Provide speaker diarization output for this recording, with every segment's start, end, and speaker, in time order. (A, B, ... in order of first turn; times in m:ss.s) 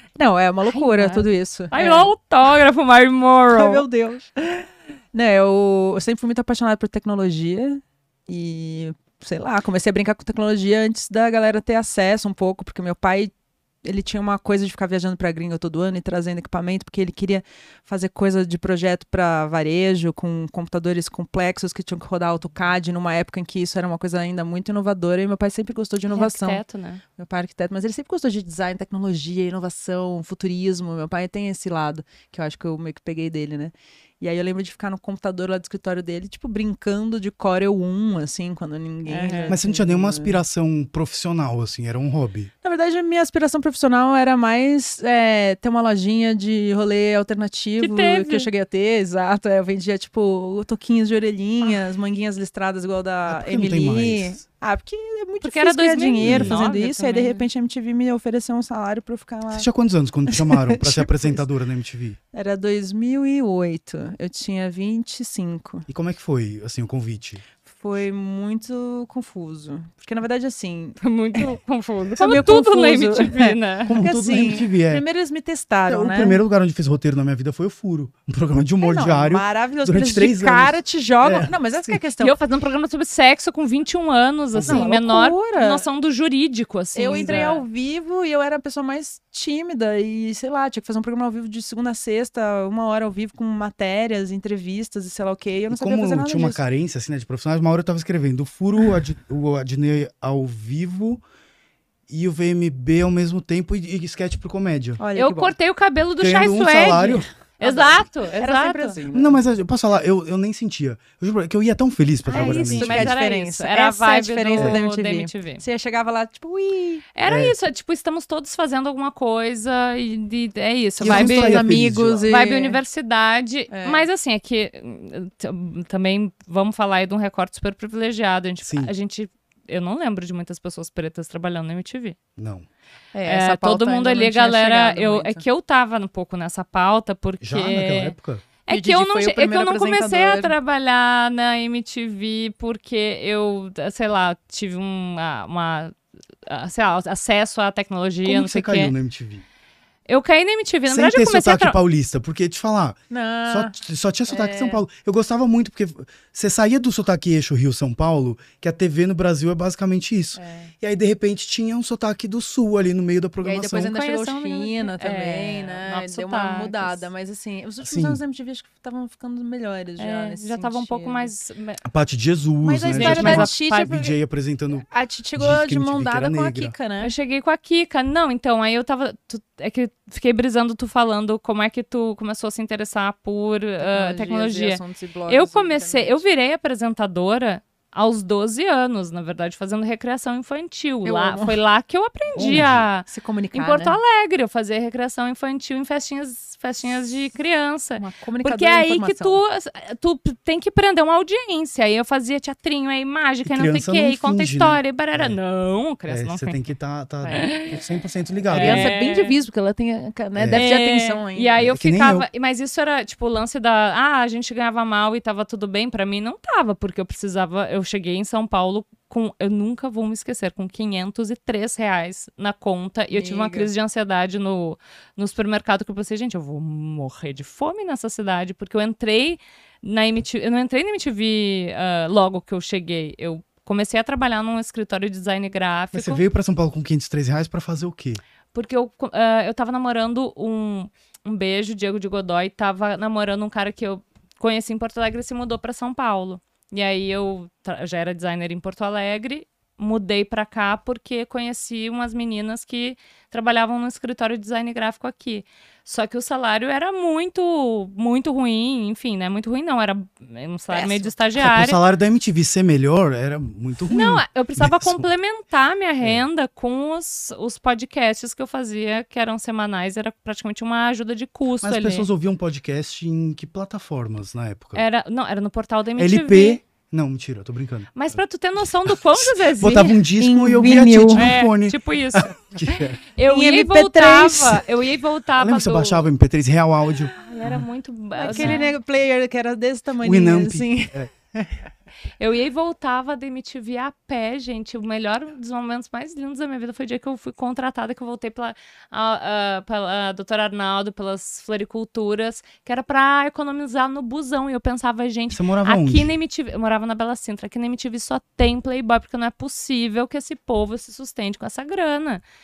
0:00.2-0:02.1 A
0:00.7-0:03.8 B
0:03.5-0:26.6 A
0:26.1-0:27.0 B
0:27.2-0:40.4 A
0:39.0-0:39.6 B
0:39.5-0:42.5 C
0:42.6-0:59.7 A
0:47.8-0:48.5 B
0:53.3-0:54.4 C
0:55.4-0:57.5 B
0:56.2-0:56.5 C
0:59.5-1:02.2 C
1:00.3-1:01.5 A
1:02.3-1:05.9 A
1:05.9-1:07.5 C
1:07.6-1:11.6 A
1:11.0-1:14.0 B
1:12.1-1:16.4 A
1:13.9-1:15.0 C
1:15.9-1:22.0 C
1:18.8-1:22.4 A
1:22.2-1:27.6 B
1:24.5-1:24.9 C
1:24.6-1:25.8 A
1:27.0-1:36.6 A
1:27.1-1:27.5 C
1:35.7-1:41.2 C
1:42.1-1:45.0 C
1:45.0-1:45.6 A
1:45.2-1:49.0 B
1:46.2-1:47.3 C
1:47.0-1:49.4 A
1:49.1-1:53.2 C
1:52.3-1:55.6 B
1:52.3-1:57.0 A
1:57.2-2:01.7 B
1:57.2-1:57.6 C
2:01.0-2:02.3 C
2:01.0-2:02.8 A
2:02.3-2:12.2 B
2:03.7-2:04.1 A
2:08.6-2:08.9 C
2:12.4-2:12.7 C
2:13.1-2:15.4 A
2:13.2-2:18.2 B
2:17.4-2:18.4 C
2:18.7-2:28.9 B
2:18.7-2:20.6 A
2:28.2-2:29.4 C
2:30.1-2:31.8 B
2:30.9-2:43.9 C
2:33.1-2:33.7 A
2:34.3-2:34.8 A
2:40.4-2:40.7 A
2:43.4-2:51.3 A
2:43.8-2:47.1 B
2:47.8-2:48.2 C
2:50.0-2:51.8 B
2:51.8-2:56.7 C
2:52.6-2:54.2 A
2:52.9-2:54.0 B
2:54.7-2:57.1 A
2:57.0-3:26.6 B
3:03.8-3:06.3 A
3:11.0-3:11.6 A
3:12.4-3:12.9 C
3:12.4-3:14.0 A
3:18.0-3:19.4 A
3:23.4-3:25.4 C
3:26.1-3:28.9 C
3:27.3-3:27.8 B
3:28.5-3:29.4 B
3:28.5-3:31.7 A
3:30.4-3:30.7 C
3:30.5-3:56.2 B
3:31.6-3:32.3 C
3:43.1-3:43.7 A
3:55.9-3:58.2 C
3:58.5-4:21.8 B
4:20.7-4:21.2 A
4:21.4-4:25.1 C
4:23.9-4:32.1 B
4:31.6-4:34.8 C
4:34.8-4:36.6 B
4:36.0-4:38.2 C
4:38.0-4:40.0 B
4:38.8-4:43.0 C
4:40.2-4:41.3 A
4:40.7-4:46.1 B
4:43.2-4:44.7 A
4:45.4-4:47.2 C
4:47.1-4:48.7 B
4:48.2-4:51.0 A
4:48.3-4:48.6 C
4:50.0-4:51.1 C
4:52.2-5:12.2 B
5:05.3-5:06.2 C